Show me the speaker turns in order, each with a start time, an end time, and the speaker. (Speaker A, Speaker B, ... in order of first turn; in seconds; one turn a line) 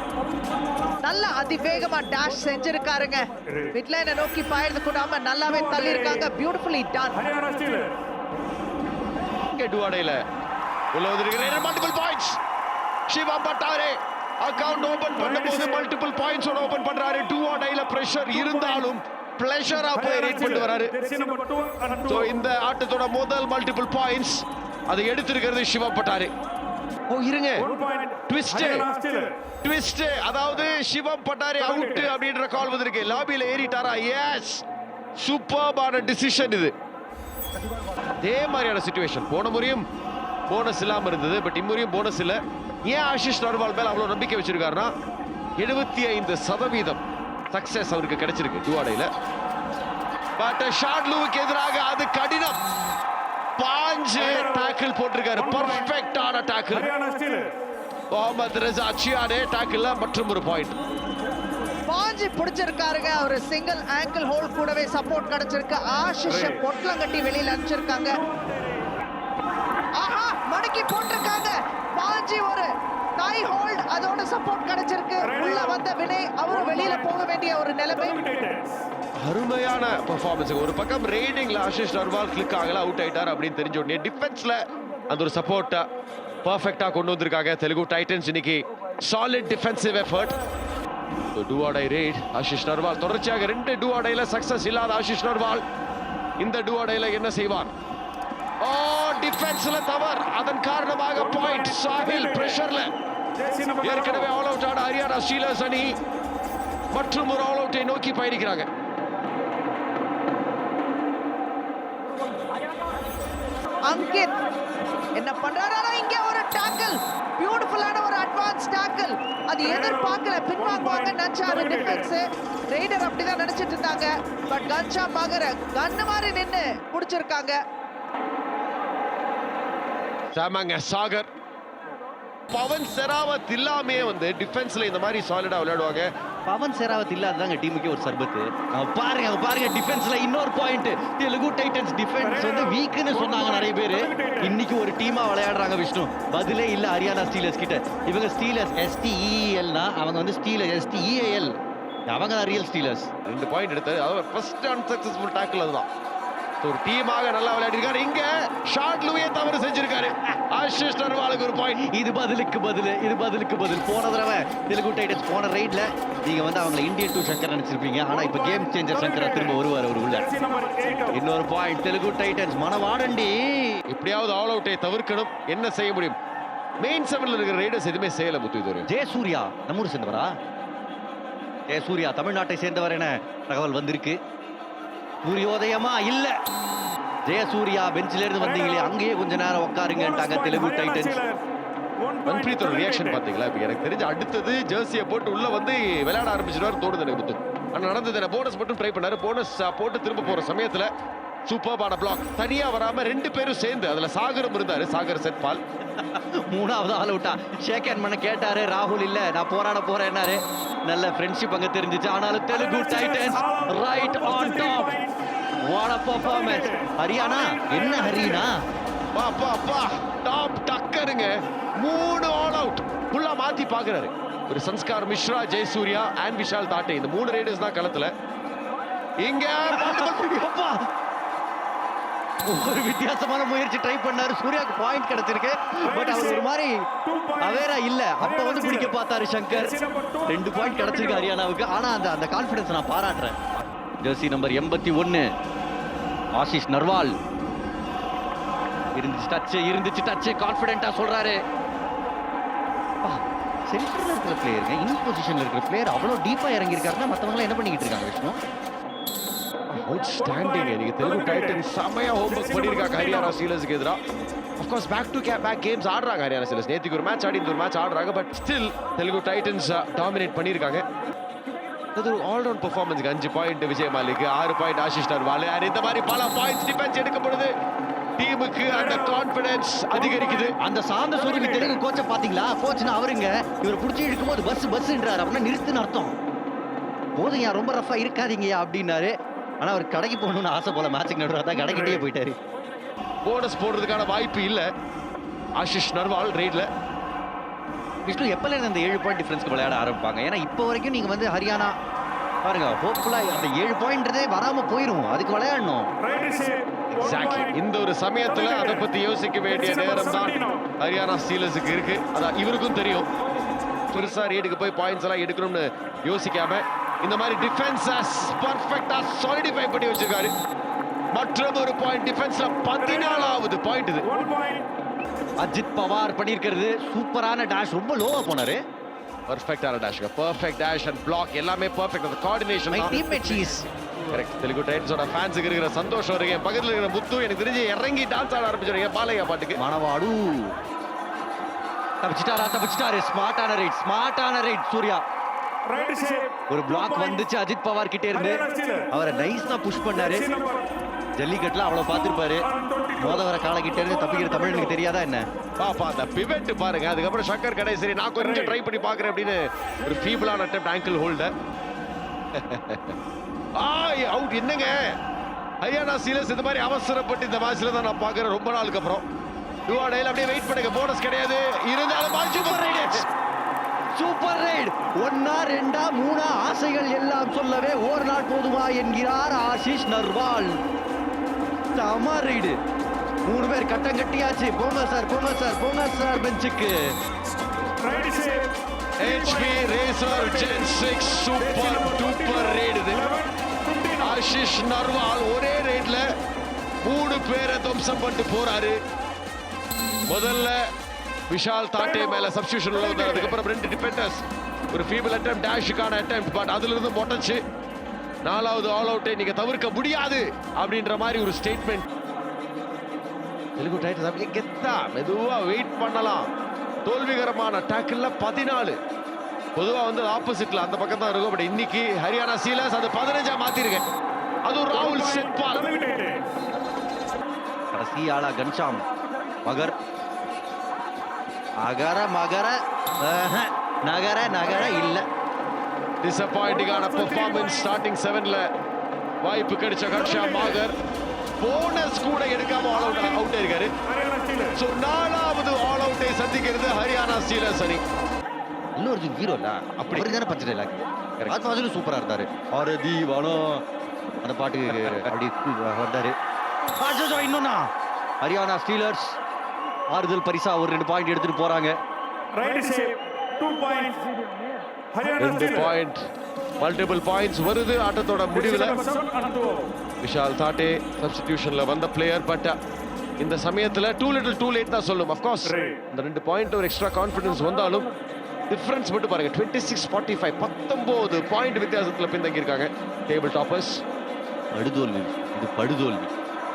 Speaker A: 1.0-7.5
Speaker B: 9.5-10.2
Speaker B: 10.9-12.4
Speaker B: 13.1-21.0
Speaker B: 22.0-26.3
Speaker B: 27.1-28.9
Speaker B: 29.6-34.6
Speaker B: 35.2-36.7
Speaker B: 38.2-39.8
Speaker B: 40.5-44.9
Speaker B: 45.6-49.1
Speaker B: 50.4-52.6
Speaker B: 53.6-56.9
Speaker B: 58.1-60.8
Speaker A: 61.9-68.2
Speaker A: 70.0-78.4
Speaker B: 79.2-85.8
Speaker B: 86.4-90.3
Speaker B: 91.3-95.6
Speaker B: 96.4-97.7
Speaker B: 98.6-102.9
Speaker B: 103.8-105.9
Speaker B: 106.9-108.7
Speaker A: 113.9-114.3
Speaker A: 115.2-127.6
Speaker B: 130.3-131.3
Speaker B: 132.5-136.1
Speaker C: 136.5-151.5
Speaker C: 152.1-153.1
Speaker B: 153.2-155.9
Speaker B: 156.6-161.8
Speaker C: 161.8-170.4
Speaker C: 171.1-173.8
Speaker B: 173.9-176.2
Speaker B: 176.8-178.9
Speaker C: 178.9-180.3
Speaker C: 181.7-184.2
Speaker C: 185.2-186.3
Speaker C: 187.3-191.2
Speaker B: 192.2-200.9
Speaker B: 201.4-205.6
Speaker C: 205.9-215.0
Speaker C: 215.6-218.6
Speaker B: 219.1-228.1
Speaker B: 229.2-230.4
Speaker C: 229.7-230.8
Speaker C: 232.4-236.8
Speaker C: 237.4-245.3
Speaker C: 246.3-247.2
Speaker C: 248.9-251.4
Speaker C: 253.0-258.4
Speaker B: 259.7-264.0
Speaker B: 264.6-270.8
Speaker B: 271.9-277.5
Speaker B: 278.2-280.5
Speaker C: 280.6-286.1
Speaker C: 287.2-292.4
Speaker B: 293.2-294.7
Speaker B: 295.6-296.7
Speaker C: 298.1-301.7
Speaker C: 302.4-305.9
Speaker B: 306.9-313.1
Speaker B: 313.9-320.3
Speaker B: 321.1-324.1
Speaker C: 325.4-328.6
Speaker B: 329.3-333.1
Speaker C: 332.7-333.7
Speaker B: 334.1-339.6
Speaker C: 339.6-340.5
Speaker C: 342.0-345.0
Speaker C: 346.5-350.4
Speaker C: 351.2-355.2
Speaker B: 355.6-361.3
Speaker B: 362.3-362.9
Speaker B: 363.6-364.9
Speaker B: 365.6-369.0
Speaker B: 369.7-373.1
Speaker C: 372.3-373.0
Speaker C: 373.9-380.5
Speaker C: 381.7-382.6
Speaker C: 383.2-386.9
Speaker B: 389.0-393.1
Speaker B: 393.9-396.1
Speaker B: 396.8-398.8
Speaker B: 400.1-400.6
Speaker B: 401.3-407.4
Speaker B: 408.2-411.9
Speaker B: 413.6-416.2
Speaker B: 416.9-418.8
Speaker B: 419.6-423.9
Speaker B: 424.4-425.8
Speaker C: 427.7-428.9
Speaker C: 429.4-429.7
Speaker C: 431.6-435.1
Speaker B: 436.0-438.5
Speaker B: 439.2-440.7
Speaker B: 441.4-443.7
Speaker B: 444.5-447.8
Speaker C: 448.8-453.6
Speaker C: 454.2-456.1
Speaker B: 454.7-455.1
Speaker C: 456.8-457.7
Speaker C: 458.2-459.2
Speaker C: 459.9-461.8
Speaker B: 465.1-466.0
Speaker B: 466.6-468.8
Speaker B: 470.0-472.6
Speaker B: 473.2-477.9
Speaker B: 478.5-483.8
Speaker C: 484.5-486.1